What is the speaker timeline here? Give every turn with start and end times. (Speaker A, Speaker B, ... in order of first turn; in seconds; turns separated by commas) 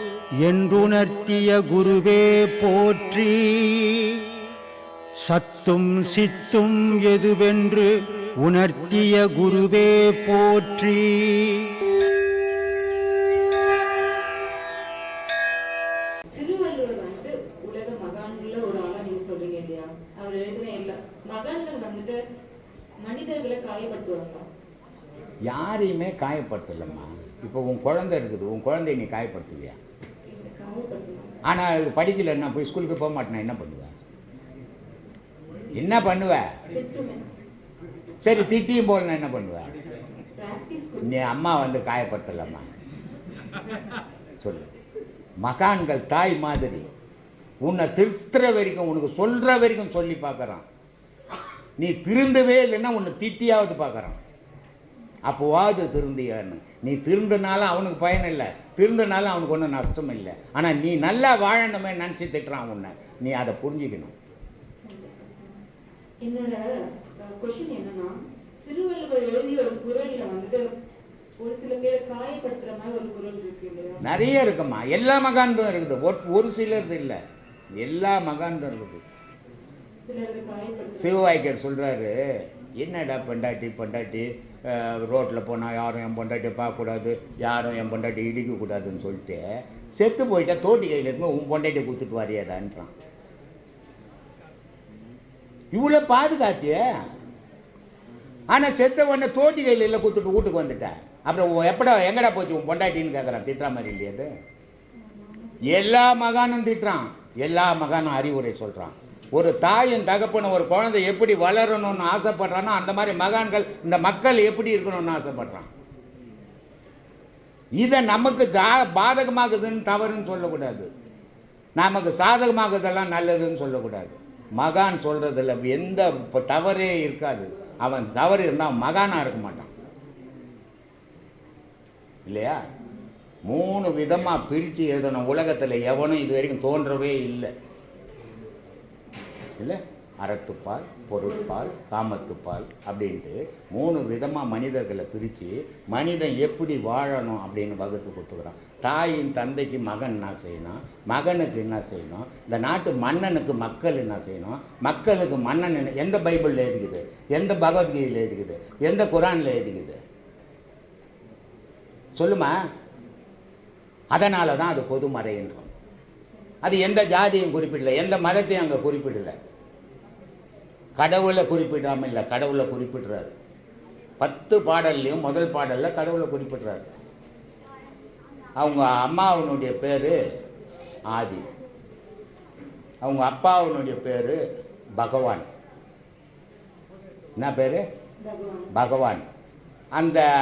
Speaker A: 0.5-3.9, Speaker A: 5.2-7.8, Speaker A: 8.4-11.5, Speaker B: 16.3-22.2, Speaker B: 23.0-24.4, Speaker C: 25.5-29.8, Speaker B: 30.3-31.4, Speaker C: 31.5-33.9, Speaker C: 35.7-36.4, Speaker B: 36.7-37.2, Speaker C: 38.2-39.7, Speaker B: 40.4-41.1, Speaker C: 41.0-42.7, Speaker C: 44.4-44.7, Speaker C: 45.4-46.9, Speaker C: 47.6-50.6, Speaker C: 51.8-54.2, Speaker C: 55.2-64.1, Speaker B: 64.8-65.6, Speaker B: 66.2-70.6, Speaker B: 71.4-74.0, Speaker C: 74.0-77.2, Speaker C: 77.8-79.0, Speaker B: 80.0-81.2, Speaker C: 81.0-82.1, Speaker C: 82.8-89.4, Speaker C: 89.9-92.9, Speaker C: 95.7-96.8, Speaker C: 98.5-104.3, Speaker B: 105.0-105.8, Speaker C: 105.7-115.7, Speaker C: 117.8-120.9, Speaker C: 121.8-129.7, Speaker C: 132.2-132.6, Speaker C: 133.4-137.5, Speaker C: 139.6-160.0, Speaker C: 162.2-162.5, Speaker C: 164.1-165.7, Speaker C: 166.6-169.3, Speaker C: 171.0-173.3, Speaker C: 174.2-176.9, Speaker C: 178.6-180.1, Speaker C: 181.1-181.4, Speaker C: 183.0-184.4, Speaker C: 185.0-185.4, Speaker C: 187.4-187.8, Speaker B: 188.2-188.7, Speaker C: 188.7-189.2, Speaker C: 189.9-190.2